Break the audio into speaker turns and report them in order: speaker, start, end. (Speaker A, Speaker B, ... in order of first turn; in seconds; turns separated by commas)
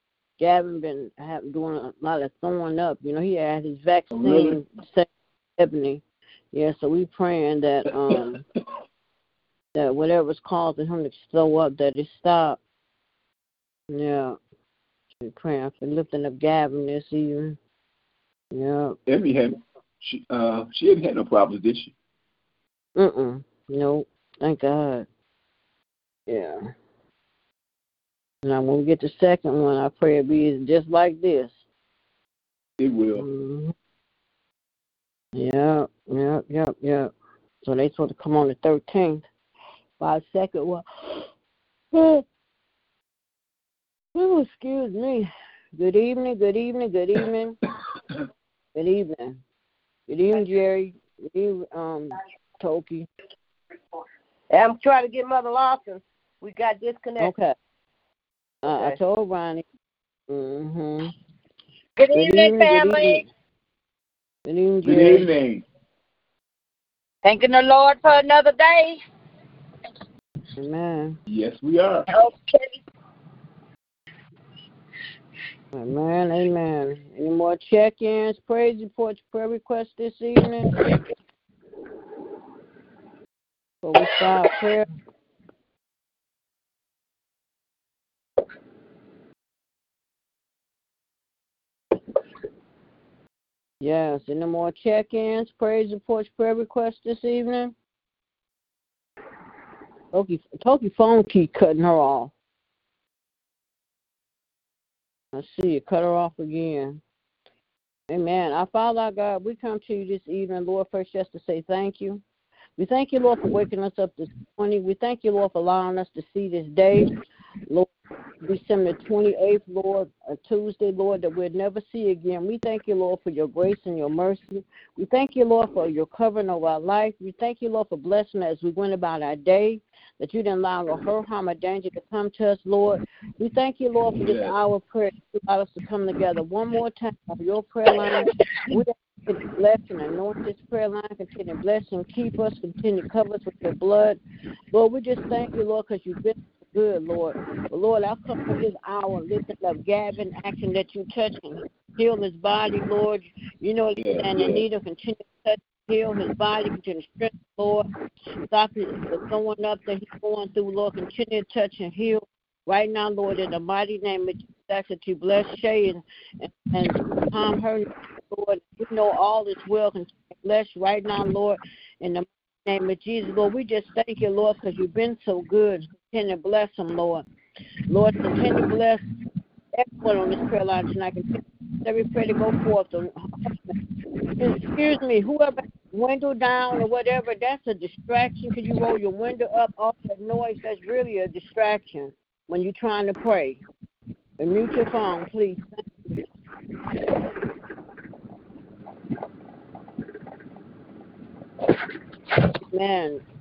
Speaker A: 0.4-8.4, Speaker B: 4.1-4.6, Speaker A: 9.7-12.6, Speaker A: 13.9-14.4, Speaker A: 15.2-17.6, Speaker A: 18.5-19.0, Speaker B: 19.1-21.9, Speaker A: 22.9-25.1, Speaker A: 26.3-26.7, Speaker A: 28.4-31.6, Speaker B: 32.8-33.2, Speaker A: 33.1-33.7, Speaker A: 35.3-37.1, Speaker A: 37.6-39.3, Speaker A: 40.0-40.9, Speaker A: 41.9-42.2, Speaker A: 44.1-47.6, Speaker A: 48.7-49.4, Speaker A: 50.1-53.1, Speaker C: 54.5-57.3, Speaker A: 57.2-57.5, Speaker A: 58.6-59.6, Speaker C: 58.6-59.0, Speaker A: 60.3-61.1, Speaker C: 62.0-63.2, Speaker A: 62.1-63.3, Speaker A: 64.5-65.3, Speaker B: 64.8-65.6, Speaker C: 67.2-69.0, Speaker A: 70.6-71.2, Speaker B: 71.3-72.1, Speaker C: 72.1-72.6, Speaker A: 75.7-80.8, Speaker A: 83.8-84.9, Speaker A: 93.8-97.7, Speaker A: 100.1-102.3, Speaker A: 105.3-107.0, Speaker A: 108.1-112.2, Speaker A: 112.8-117.1, Speaker A: 118.4-144.2, Speaker B: 134.1-134.5, Speaker A: 144.7-157.9, Speaker B: 154.0-154.6, Speaker A: 158.4-177.2, Speaker A: 177.9-179.0, Speaker A: 179.7-183.7, Speaker A: 184.4-193.6, Speaker A: 194.4-196.3, Speaker A: 202.7-203.2